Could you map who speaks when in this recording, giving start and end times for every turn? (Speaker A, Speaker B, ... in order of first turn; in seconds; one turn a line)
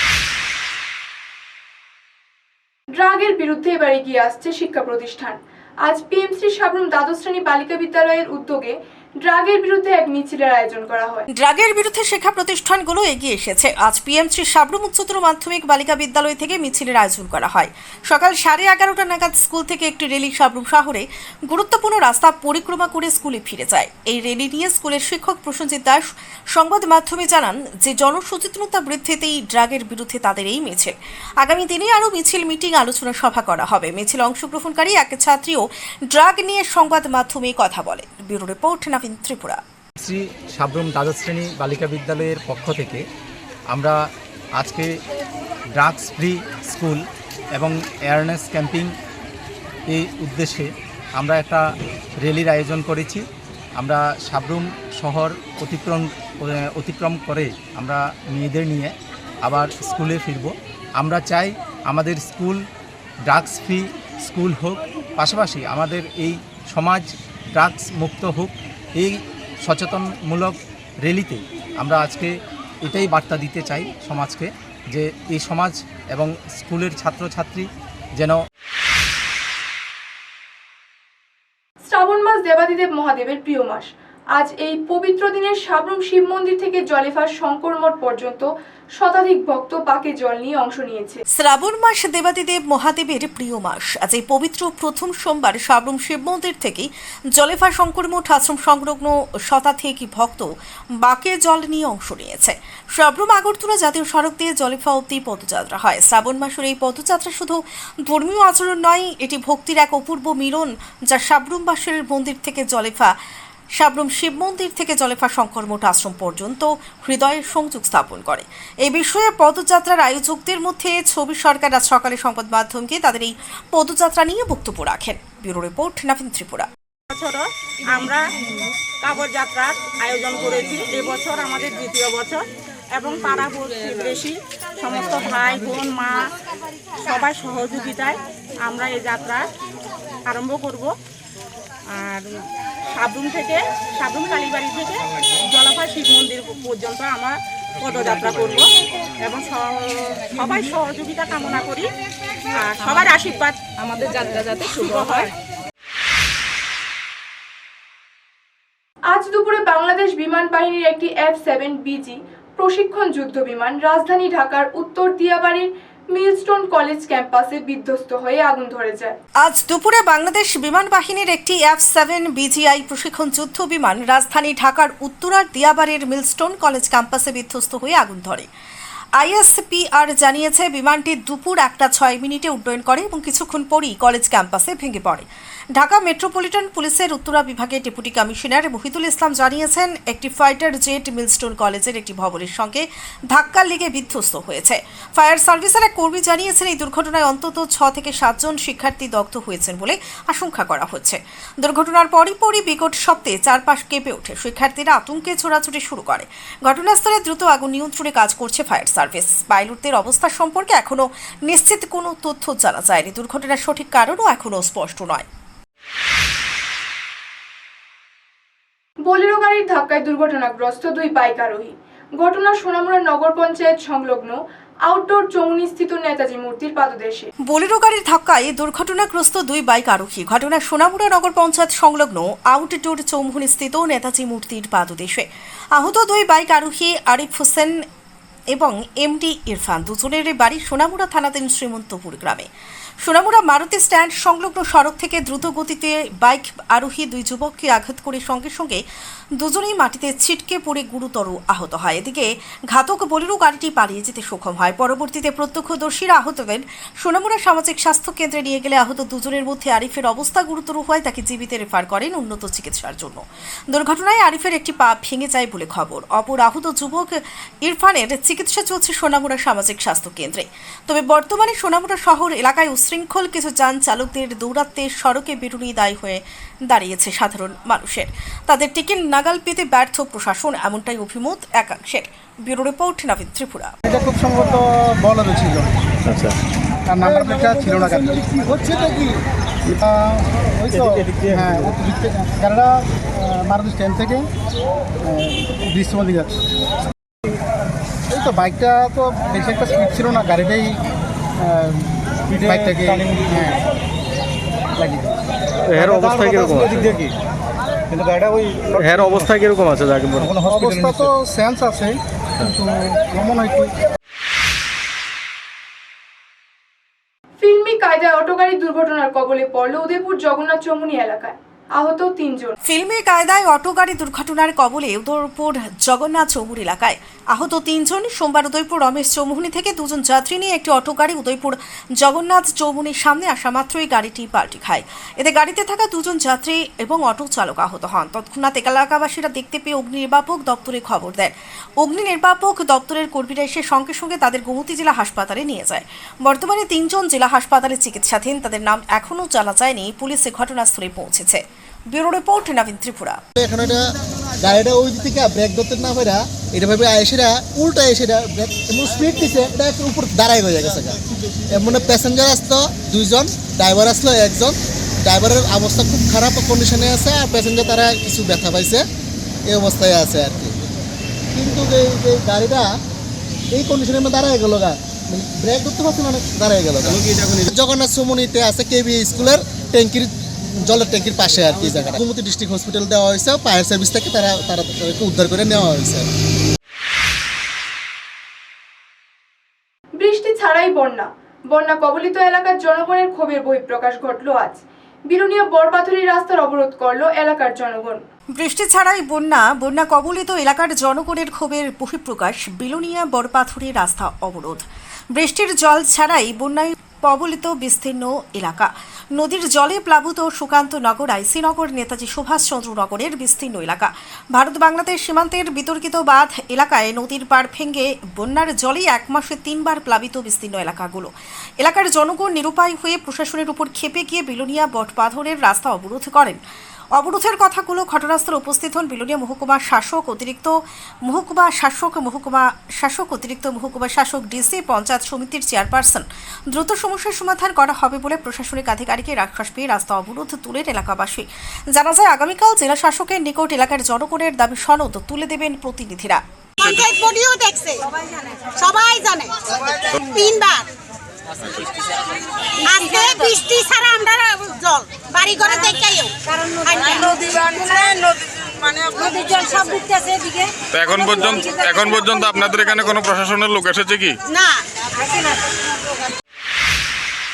Speaker A: 2.9-11.3
Speaker B: 11.3-39.6
Speaker C: 40.0-43.0
Speaker C: 43.7-44.0
Speaker C: 44.6-44.9
Speaker C: 45.8-48.9
Speaker C: 49.9-51.6
Speaker C: 52.2-53.2
Speaker C: 53.8-62.6
Speaker C: 63.3-78.4
Speaker A: 81.8-91.2
Speaker B: 91.4-100.5
Speaker B: 101.0-113.1
Speaker B: 113.8-126.7
Speaker D: 127.1-128.3
Speaker D: 129.0-132.4
Speaker D: 132.9-136.3
Speaker D: 137.1-139.5
Speaker D: 140.3-140.9
Speaker D: 141.9-142.3
Speaker D: 142.9-148.7
Speaker D: 149.2-151.9
Speaker D: 152.6-155.3
Speaker A: 159.1-169.2
Speaker B: 169.4-178.5
Speaker B: 179.2-215.3
Speaker A: 219.1-227.3
Speaker B: 227.4-237.8
Speaker B: 238.5-242.5
Speaker B: 243.0-248.8
Speaker B: 249.4-283.7
Speaker E: 283.9-285.7
Speaker E: 286.9-288.3
Speaker F: 287.9-288.9
Speaker E: 289.7-294.2
Speaker G: 290.7-291.7
Speaker E: 295.1-296.4
Speaker E: 298.1-300.8
Speaker E: 301.4-303.6
Speaker G: 302.3-303.3
Speaker E: 304.8-305.1
Speaker G: 305.7-307.1
Speaker E: 305.8-306.9
Speaker E: 307.9-309.3
Speaker G: 308.8-310.3
Speaker E: 310.2-313.7
Speaker A: 317.4-322.6
Speaker B: 322.7-353.2
Speaker F: 353.4-353.8
Speaker F: 354.4-361.0
Speaker F: 361.5-368.8
Speaker F: 369.5-370.5
Speaker F: 371.3-372.7
Speaker F: 373.5-380.1
Speaker G: 376.9-377.4
Speaker F: 380.6-386.1
Speaker A: 390.0-398.0
Speaker B: 398.4-426.4
Speaker B: 427.0-446.2
Speaker H: 446.6-447.8
Speaker H: 448.6-450.7
Speaker H: 452.6-457.9
Speaker H: 458.9-460.4
Speaker I: 460.7-464.2
Speaker H: 461.1-461.7
Speaker H: 464.3-465.3